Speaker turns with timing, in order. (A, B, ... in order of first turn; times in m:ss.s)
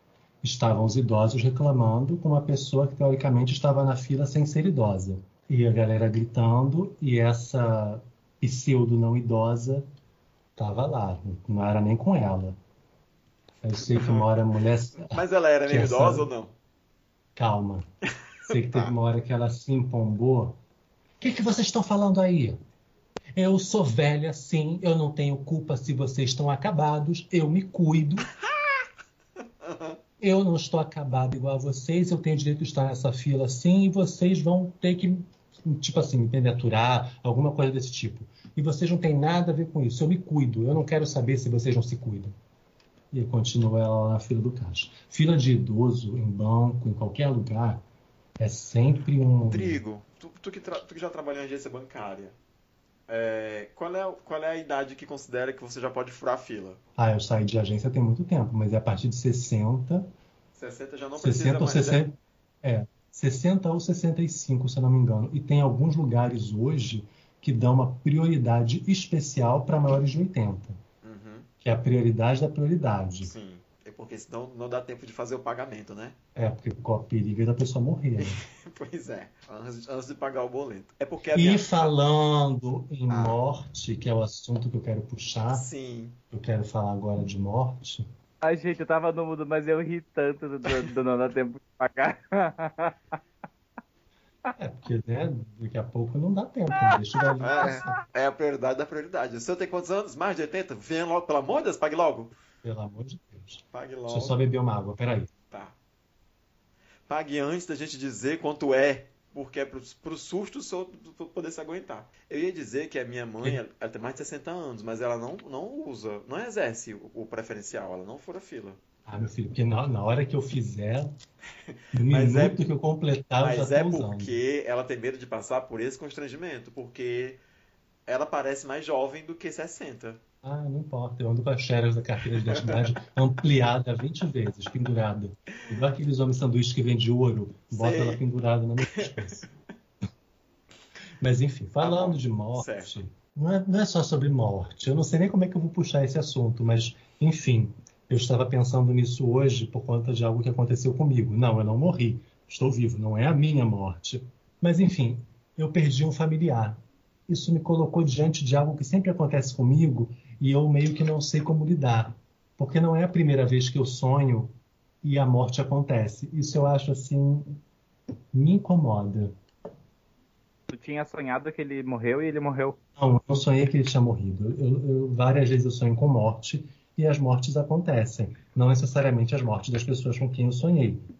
0:00.4-0:09.8 A
0:10.6-0:12.6 A
0:13.6-0:16.3 A
0:13.8-0:14.3 B
0:15.0-0:16.5 B
0:17.4-0:17.9 A
0:18.4-0:20.6 A
0:18.4-0:18.9 B
0:21.2-0:22.6 A
0:23.4-0:28.3 A
0:29.6-0:30.0 B
0:30.2-0:42.3 A
0:43.1-0:47.8 A
0:48.4-0:49.8 A
0:49.5-0:52.4 B
0:53.1-0:56.8 B
0:57.0-1:00.1 A
1:00.6-1:02.0 B
1:01.2-1:10.8 A
1:11.0-1:11.5 B
1:11.6-1:13.3 A
1:13.2-1:16.2 B
1:16.4-1:18.4 A
1:18.2-1:21.9 B
1:21.3-1:25.7 A
1:23.1-1:23.4 B
1:25.5-1:26.2 B
1:26.3-1:28.0 A
1:28.4-1:33.0 C
1:34.6-1:38.0 A
1:37.4-1:42.3 B
1:42.6-1:45.3 A
1:43.7-1:44.4 B
1:47.1-1:58.8 B
1:59.0-2:01.2 A
2:01.9-2:04.4 A
2:02.1-2:02.6 B
2:03.4-2:07.4 B
2:08.1-2:10.2 B
2:10.4-2:19.5 A
2:17.7-2:18.2 B
2:21.2-2:47.6 A
2:21.8-2:22.9 B
2:48.3-2:49.3 A
2:50.7-2:52.8 C
2:53.0-3:01.0 A